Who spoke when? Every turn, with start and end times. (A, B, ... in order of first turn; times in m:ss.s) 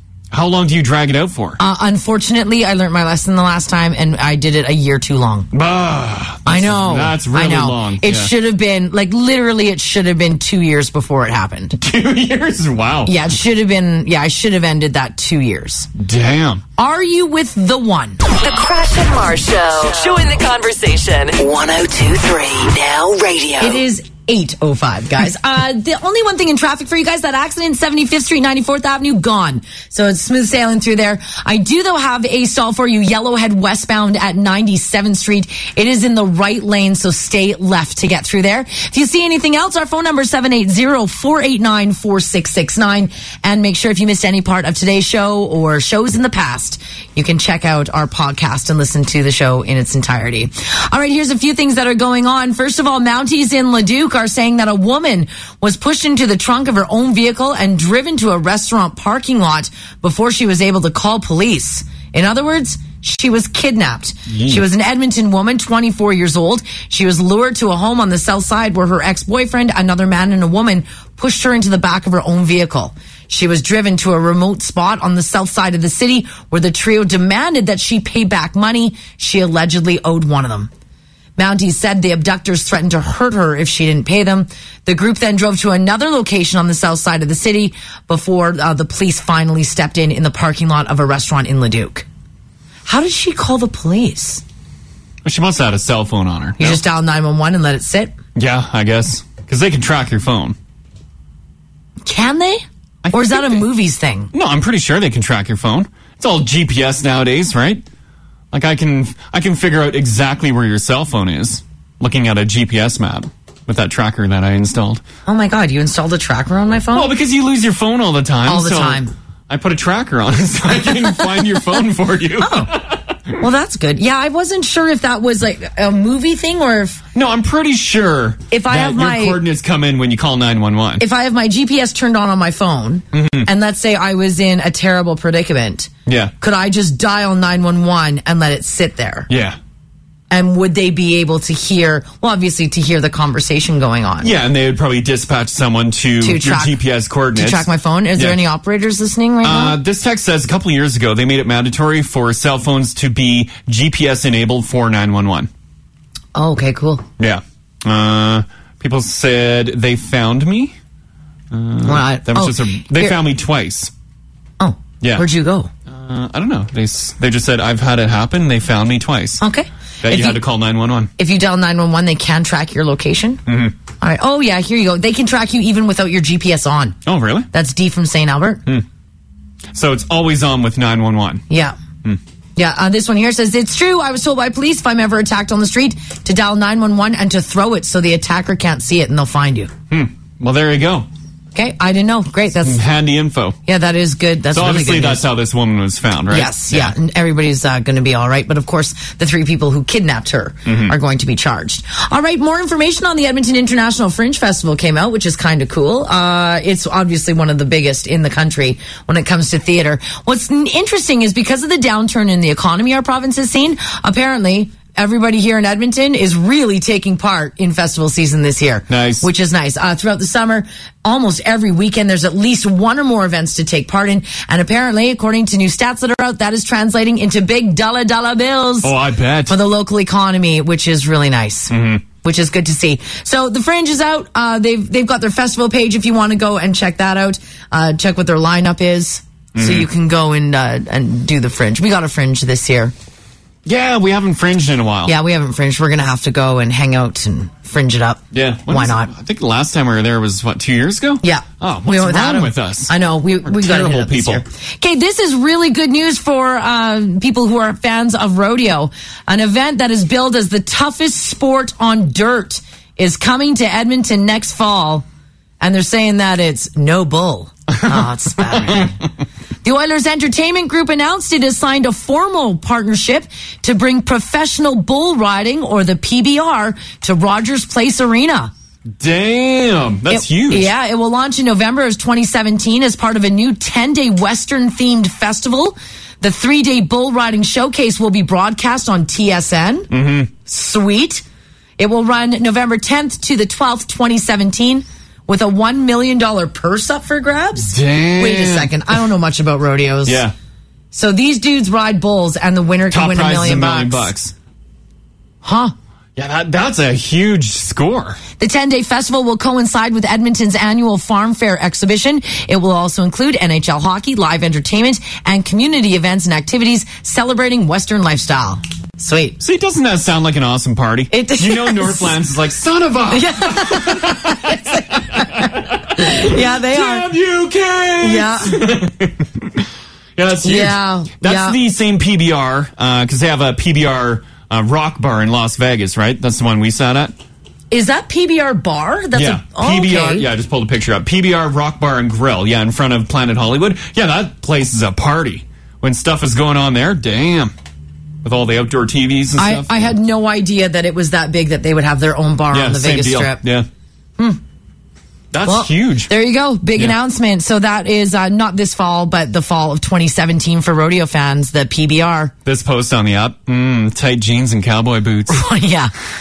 0:00.3-0:01.6 A
0:01.6-0:05.5 B
0:05.5-0:08.3 A
0:06.4-0:11.8 B
0:11.8-0:13.1 A
0:13.0-0:15.9 B
0:16.0-0:16.6 A
0:16.8-0:18.2 B
0:18.4-0:21.3 C
0:21.4-0:23.8 D
0:23.6-1:20.7 B
1:04.3-1:04.6 A
1:21.4-1:32.0 B
1:32.9-1:34.4 B
1:35.2-1:36.8 A
1:36.6-1:38.1 B
1:38.3-1:40.6 A
1:42.0-1:44.3 B
1:43.0-1:43.6 A
1:44.3-1:47.8 A
1:48.5-1:55.0 A
1:55.3-1:57.1 B
1:56.9-2:03.3 A
1:58.4-1:59.1 B
2:02.4-2:02.7 B
2:03.4-2:07.0 B
2:07.1-2:11.0 A
2:08.5-2:09.4 B
2:11.0-2:15.9 B
2:13.1-2:13.5 A
2:16.0-2:16.3 A
2:16.4-2:19.3 B
2:19.3-2:19.6 A
2:20.3-2:24.3 B
2:24.2-2:28.4 A
2:26.2-2:26.8 B
2:27.3-2:29.8 B
2:29.4-2:35.5 A
2:36.3-2:37.0 B
2:37.2-2:40.8 A
2:41.5-2:43.9 A
2:41.8-2:43.2 B
2:44.6-2:45.7 B
2:45.0-2:45.3 A
2:45.9-2:49.4 A
2:49.4-2:50.4 B
2:50.0-2:51.1 A
2:51.2-2:53.4 B
2:53.5-2:53.8 A
2:54.0-2:57.0 B
2:57.0-2:57.5 A
2:57.5-2:58.6 B
2:59.7-3:01.4 A
3:01.5-3:01.8 B
3:02.6-3:09.7 B
3:09.9-3:11.1 A
3:11.5-3:12.8 B
3:12.6-3:13.6 A
3:13.7-3:15.3 B
3:14.5-3:17.0 A
3:16.3-3:48.9 B
3:20.7-3:21.0 A
3:38.9-3:39.3 A
3:48.8-3:49.6 A
3:49.5-4:02.9 B
3:51.7-3:52.0 A
3:59.6-3:59.9 A
4:03.6-4:05.1 A
4:05.1-4:09.1 B
4:08.3-4:12.9 A
4:11.2-4:25.1 B
4:13.4-4:14.4 A
4:25.6-4:29.0 B
4:27.8-4:28.9 A
4:29.6-4:38.5 B
4:39.0-4:40.7 A
4:40.1-4:49.9 B
4:49.9-4:50.3 A
4:50.4-4:51.2 B
4:51.8-5:00.2 B
4:57.6-4:58.7 A
5:00.0-5:00.4 A
5:00.9-5:04.1 B
5:02.9-5:04.3 A
5:05.4-5:05.7 B
5:06.2-5:08.2 A
5:08.4-5:19.4 B
5:19.4-5:37.1 A
5:21.1-5:22.2 B
5:23.1-5:27.1 B
5:28.0-5:28.6 B
5:30.4-5:31.6 B
5:37.7-5:40.3 B
5:39.1-5:47.5 A
5:48.2-5:49.9 A
5:49.4-5:53.4 B
5:52.5-5:53.7 A
5:55.3-5:56.1 A
5:55.4-6:02.3 B
6:02.4-6:05.4 A
6:05.3-6:05.9 B